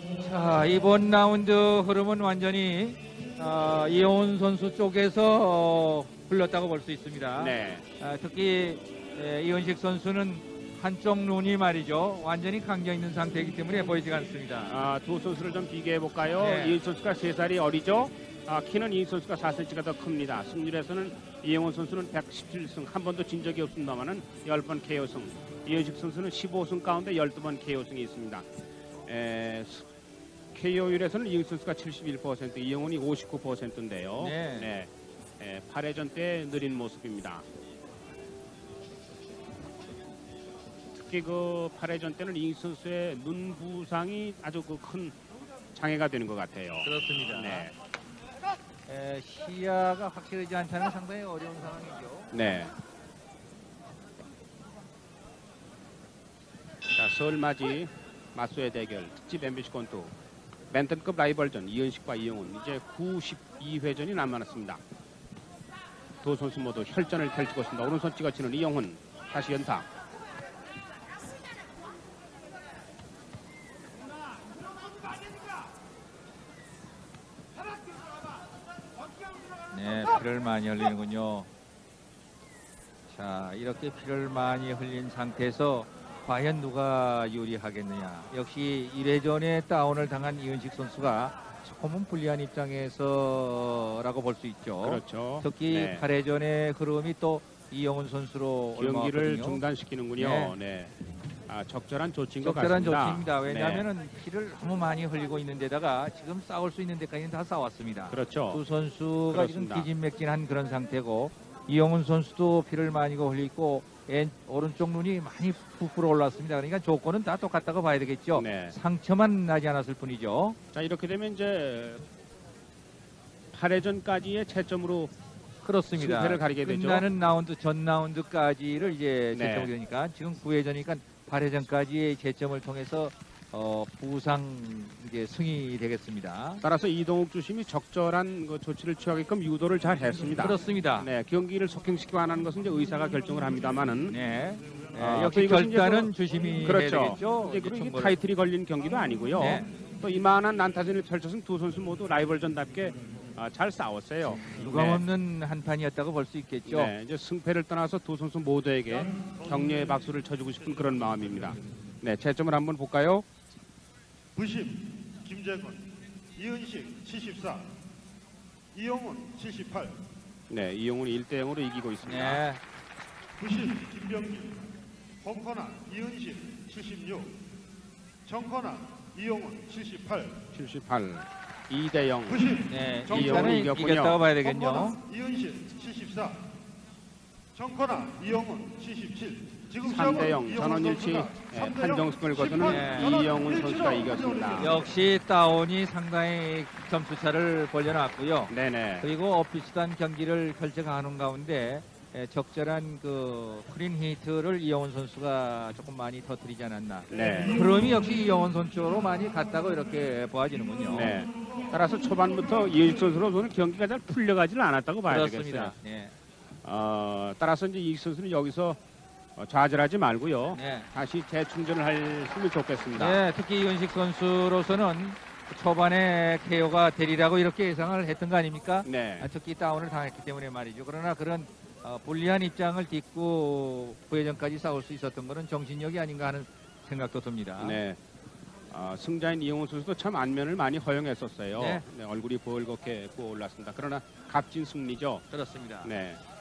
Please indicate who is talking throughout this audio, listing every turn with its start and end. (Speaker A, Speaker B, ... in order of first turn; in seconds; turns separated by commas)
Speaker A: 0.2-14.9, Speaker B: 7.4-7.8, Speaker B: 14.7-28.5, Speaker A: 16.4-16.8, Speaker B: 29.0-29.9, Speaker B: 30.5-37.5, Speaker A: 34.2-34.7, Speaker B: 41.0-45.2, Speaker B: 45.7-47.7, Speaker A: 46.8-47.7, Speaker A: 48.9-52.3, Speaker B: 52.3-52.8, Speaker B: 57.0-60.1, Speaker B: 60.7-64.8, Speaker B: 66.2-69.9, Speaker A: 79.7-81.5, Speaker A: 83.1-99.6, Speaker B: 94.8-96.0, Speaker B: 98.8-100.9, Speaker A: 100.2-100.5, Speaker B: 101.5-103.9, Speaker A: 102.4-120.6, Speaker B: 108.1-108.6, Speaker B: 109.3-109.9, Speaker B: 118.3-118.8, Speaker B: 120.7-122.0, Speaker B: 123.5-125.1, Speaker A: 125.6-136.6, Speaker B: 126.0-127.1, Speaker B: 129.3-129.7, Speaker B: 136.6-144.2, Speaker A: 140.4-141.1, Speaker A: 144.1-148.2, Speaker B: 144.9-155.0, Speaker A: 149.4-149.7, Speaker A: 154.6-156.9, Speaker B: 156.7-163.2, Speaker C: 164.4-165.8, Speaker C: 166.4-167.6, Speaker C: 168.7-169.9, Speaker B: 170.5-172.4, Speaker A: 172.0-172.6, Speaker C: 173.4-174.6, Speaker C: 175.2-177.3, Speaker C: 178.2-180.4, Speaker B: 180.5-184.2, Speaker C: 182.4-182.6, Speaker A: 182.7-185.0, Speaker C: 184.4-186.4, Speaker C: 187.5-191.9, Speaker B: 189.8-194.8, Speaker C: 192.5-194.5, Speaker A: 192.6-193.2, Speaker A: 194.6-211.1, Speaker B: 198.5-199.1, Speaker B: 207.1-207.6, Speaker B: 210.9-215.8, Speaker A: 215.1-216.2, Speaker B: 216.6-218.8, Speaker B: 219.4-223.2, Speaker A: 220.5-220.9, Speaker A: 223.0-237.8, Speaker B: 228.8-229.3, Speaker B: 237.6-238.0, Speaker B: 238.7-245.2, Speaker A: 241.6-241.8, Speaker A: 245.3-245.9, Speaker B: 245.8-246.2